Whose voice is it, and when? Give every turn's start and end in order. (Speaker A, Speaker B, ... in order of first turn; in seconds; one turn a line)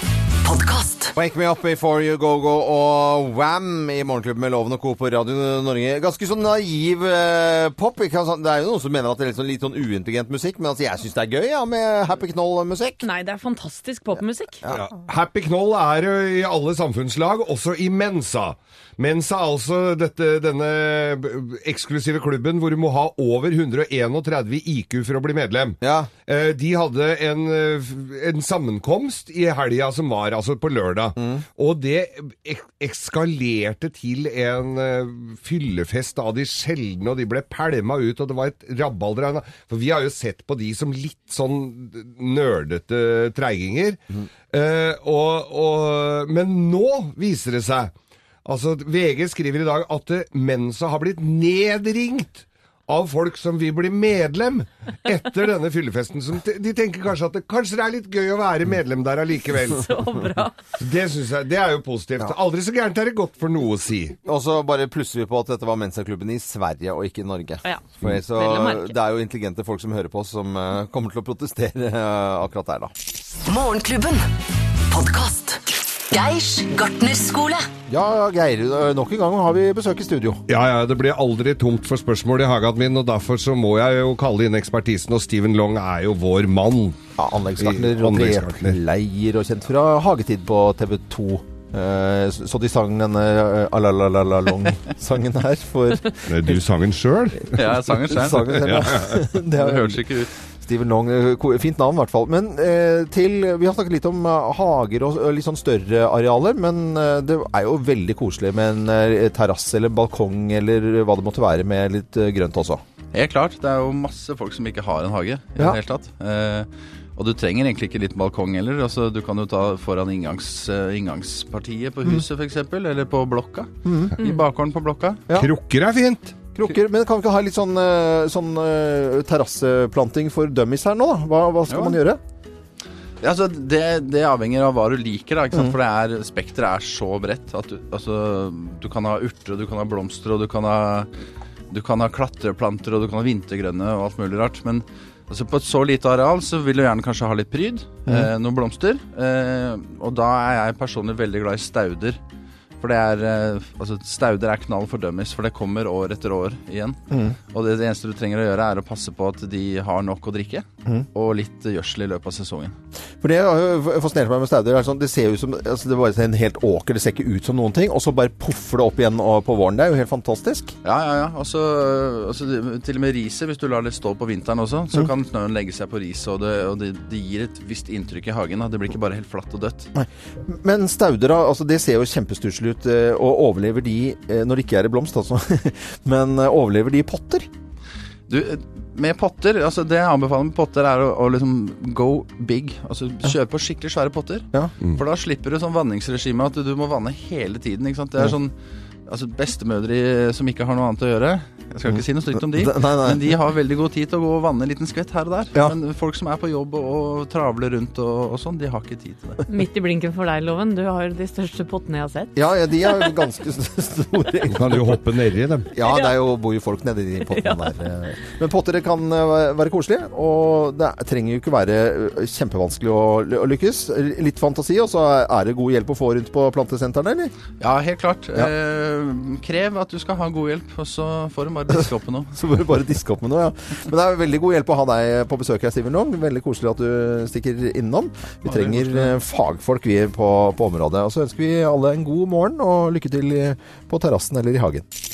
Speaker A: 0.4-1.1
Speaker B: 1.1-13.0
Speaker C: 13.0-14.6
Speaker D: 14.7-47.9
Speaker B: 25.8-26.1
Speaker B: 31.2-31.4
Speaker D: 48.5-59.9
Speaker C: 59.7-60.6
Speaker D: 60.8-64.2
Speaker B: 64.2-72.9
Speaker C: 67.6-69.0
Speaker A: 73.5-74.3
Speaker A: 74.9-77.7
Speaker B: 77.9-80.4
Speaker D: 80.5-87.0
Speaker B: 87.2-96.6
Speaker D: 87.6-88.8
Speaker D: 96.3-97.6
Speaker B: 97.5-112.8
Speaker E: 97.5-98.6
Speaker D: 98.4-99.2
Speaker E: 99.5-100.3
Speaker E: 113.1-125.2
Speaker B: 123.8-124.2
Speaker D: 125.4-126.4
Speaker B: 126.5-132.2
Speaker E: 131.7-132.0
Speaker E: 133.2-141.1
Speaker E: 141.7-152.2
Speaker E: 152.8-162.8
Speaker B: 157.1-157.4
Speaker B: 163.2-170.8
Speaker E: 170.8-179.9
Speaker B: 179.9-187.5
Speaker E: 188.3-198.5
Speaker E: 199.1-209.4
Speaker B: 201.9-203.3
Speaker C: 209.5-212.3
Speaker B: 212.3-215.0
Speaker C: 212.8-213.1
Speaker D: 214.5-215.7
Speaker B: 215.7-227.3
Speaker C: 215.9-216.2
Speaker C: 217.3-217.8
Speaker E: 227.6-232.3
Speaker B: 232.3-244.9
Speaker E: 238.4-239.1